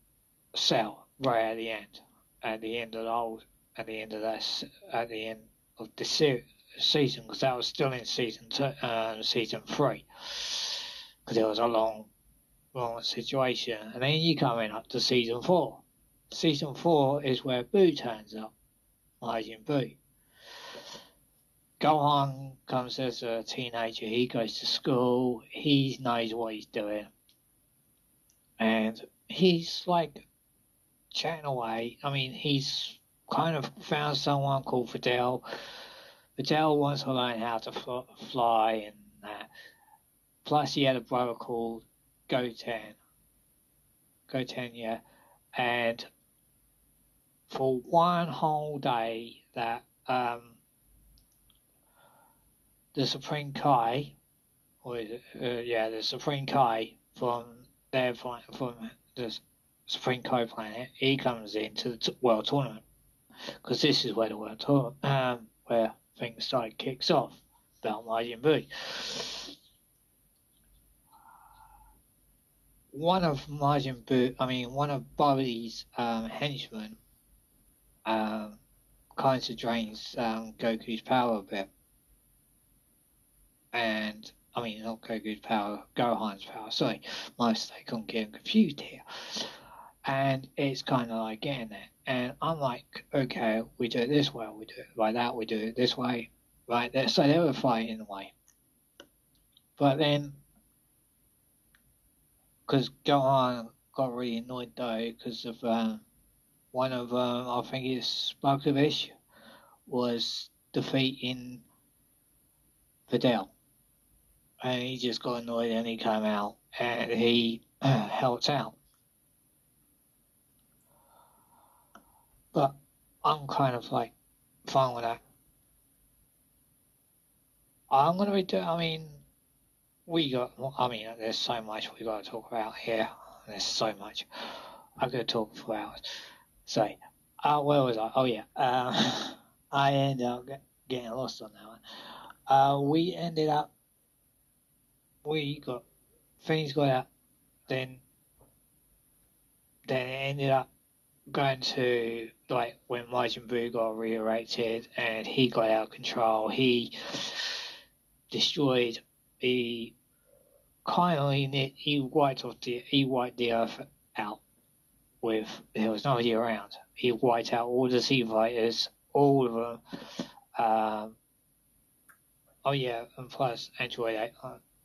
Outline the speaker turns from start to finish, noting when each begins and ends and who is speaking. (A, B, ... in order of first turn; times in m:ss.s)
0:00.6-0:12.1 A
0:12.7-0:18.5 A
0:19.2-0:20.0 A
0:21.8-0:27.1 A
0:28.6-0:30.3 A
0:31.1-0:35.4 A
0:36.4-0:39.5 A
0:40.4-0:43.0 A
0:44.3-0:45.0 A
0:45.6-0:46.1 A
0:47.5-0:50.6 A
0:52.9-0:54.1 A
0:54.8-1:02.8 A
1:03.6-1:09.5 A
1:12.9-1:17.0 A
1:18.1-1:18.6 A
1:19.1-1:21.7 A
1:23.7-1:29.5 A
1:30.0-1:38.3 A
1:39.8-1:40.4 A
1:42.7-1:46.0 A
1:46.7-1:49.1 A
1:49.9-1:51.6 A
1:53.1-1:53.5 A
1:54.6-1:58.8 A
2:02.5-2:04.1 A
2:04.6-2:05.2 A
2:07.9-2:09.2 A
2:10.1-2:16.0 A
2:16.6-2:21.8 A
2:22.5-2:23.7 A
2:25.2-2:25.8 A
2:26.4-2:27.1 A
2:27.7-2:28.0 A
2:29.9-2:30.7 A
2:31.3-2:37.6 A
2:38.3-2:39.9 A
2:40.8-2:44.4 A
2:45.2-2:51.2 A
2:52.6-2:54.6 A